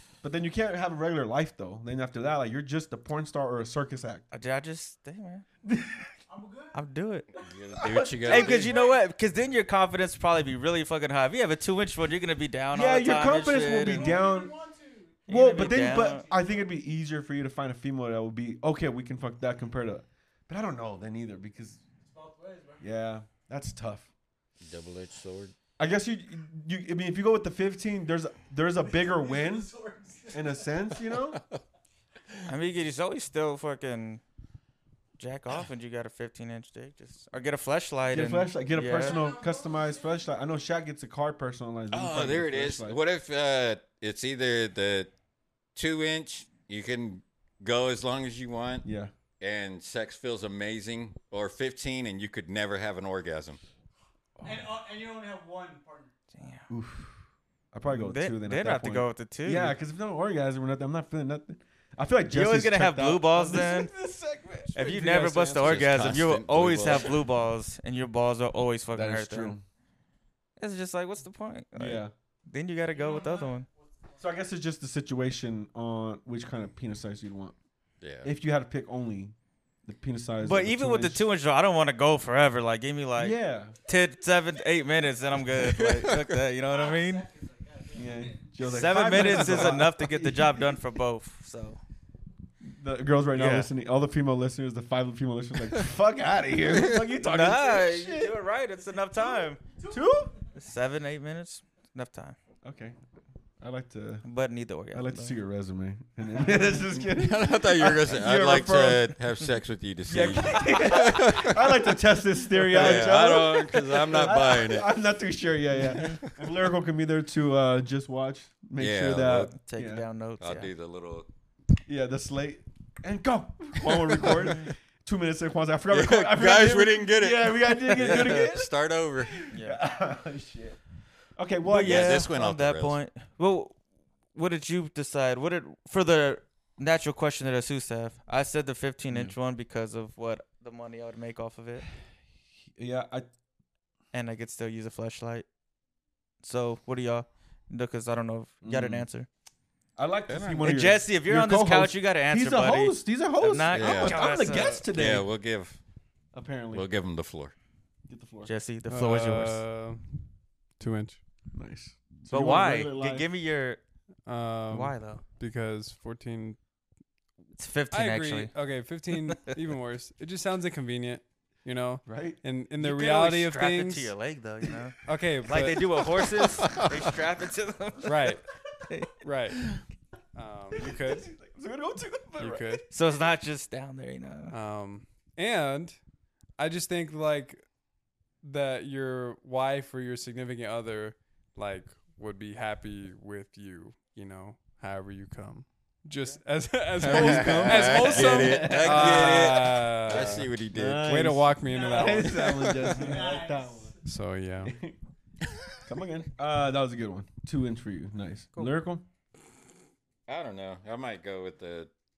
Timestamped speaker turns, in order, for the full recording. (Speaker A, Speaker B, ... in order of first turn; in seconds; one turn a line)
Speaker A: 0.2-4.2
Speaker B: 4.3-5.4
Speaker A: 5.6-6.1
Speaker C: 6.3-6.8
Speaker B: 6.7-7.3
Speaker D: 7.3-8.8
Speaker A: 7.8-8.7
Speaker B: 8.2-14.2
Speaker C: 8.3-9.0
Speaker A: 12.7-14.5
Speaker C: 13.7-16.6
Speaker B: 15.3-16.2
Speaker A: 15.3-21.8
Speaker C: 21.8-22.8
Speaker A: 22.8-24.1
Speaker D: 24.6-25.5
Speaker A: 25.8-29.7
Speaker C: 28.8-30.9
Speaker A: 30.3-31.4
Speaker B: 32.5-34.2
Speaker B: 35.2-39.2
Speaker A: 38.1-43.0
Speaker C: 38.9-40.3
Speaker D: 41.9-45.1
Speaker D: 45.7-48.9
Speaker A: 48.8-49.1
Speaker D: 49.4-53.6
Speaker A: 54.4-54.7
Speaker C: 54.4-56.1
Speaker B: 56.3-56.6
Speaker A: 56.7-57.2
Speaker A: 57.7-65.9
Speaker B: 57.9-59.7
Speaker B: 62.3-63.9
Speaker B: 64.7-69.5
Speaker D: 65.6-67.2
Speaker A: 68.9-69.6
Speaker B: 70.6-73.7
Speaker A: 71.8-72.1
Speaker C: 72.9-74.3
Speaker A: 74.2-77.5
Speaker D: 78.0-78.3
Speaker A: 78.2-81.2
Speaker B: 80.4-87.2
Speaker A: 83.2-83.7
Speaker D: 85.5-86.4
Speaker C: 86.6-89.0
Speaker A: 87.9-90.8
Speaker B: 88.6-91.8
Speaker D: 89.2-89.7
Speaker A: 92.6-98.4
Speaker B: 93.3-93.7
Speaker B: 97.2-99.6
Speaker C: 99.1-100.5
Speaker A: 99.9-100.3
Speaker B: 100.5-102.4
Speaker A: 102.6-103.0
Speaker A: 103.6-104.2
Speaker B: 104.2-105.3
Speaker A: 104.9-109.1
Speaker D: 107.0-111.7
Speaker A: 110.1-120.0
Speaker D: 112.6-114.9
Speaker B: 112.7-113.1
Speaker B: 115.8-116.2
Speaker D: 115.9-116.4
Speaker D: 118.8-119.5
Speaker B: 119.5-120.7
Speaker D: 120.4-121.3
Speaker A: 121.9-130.8
Speaker D: 123.8-124.5
Speaker D: 125.9-129.4
Speaker B: 128.0-128.4
Speaker B: 129.5-129.8
Speaker A: 131.3-132.3
Speaker B: 131.6-133.8
Speaker D: 131.8-133.0
Speaker B: 134.3-141.8
Speaker A: 139.1-139.3
Speaker A: 142.8-143.3
Speaker B: 144.1-145.4
Speaker B: 146.4-149.3
Speaker A: 148.6-149.1
Speaker A: 150.0-155.3
Speaker D: 150.3-150.7
Speaker B: 150.6-154.8
Speaker D: 153.7-154.2
Speaker D: 154.9-155.8
Speaker A: 156.3-156.9
Speaker D: 156.7-157.5
Speaker A: 158.1-158.5
Speaker B: 158.4-159.6
Speaker E: 158.9-160.1
Speaker E: 160.8-161.2
Speaker A: 161.5-163.2
Speaker B: 162.3-163.8
Speaker E: 164.2-166.6
Speaker B: 164.7-165.2
Speaker B: 167.6-168.5
Speaker E: 167.9-174.1
Speaker B: 169.1-169.5
Speaker A: 172.1-172.4
Speaker B: 172.8-178.4
Speaker E: 175.0-176.4
Speaker E: 178.0-178.4
Speaker B: 178.9-179.2
Speaker E: 179.2-179.7
Speaker E: 180.3-181.3
Speaker A: 180.8-182.8
Speaker E: 182.4-182.8
Speaker B: 182.9-184.6
Speaker E: 184.5-186.0
Speaker E: 186.6-187.6
Speaker E: 188.4-200.5
Speaker A: 197.0-203.9
Speaker D: 197.0-201.3
Speaker E: 201.0-203.2
Speaker C: 201.7-204.0
Speaker E: 204.0-204.7
Speaker A: 204.6-205.0
Speaker A: 205.8-209.0
Speaker D: 210.3-211.9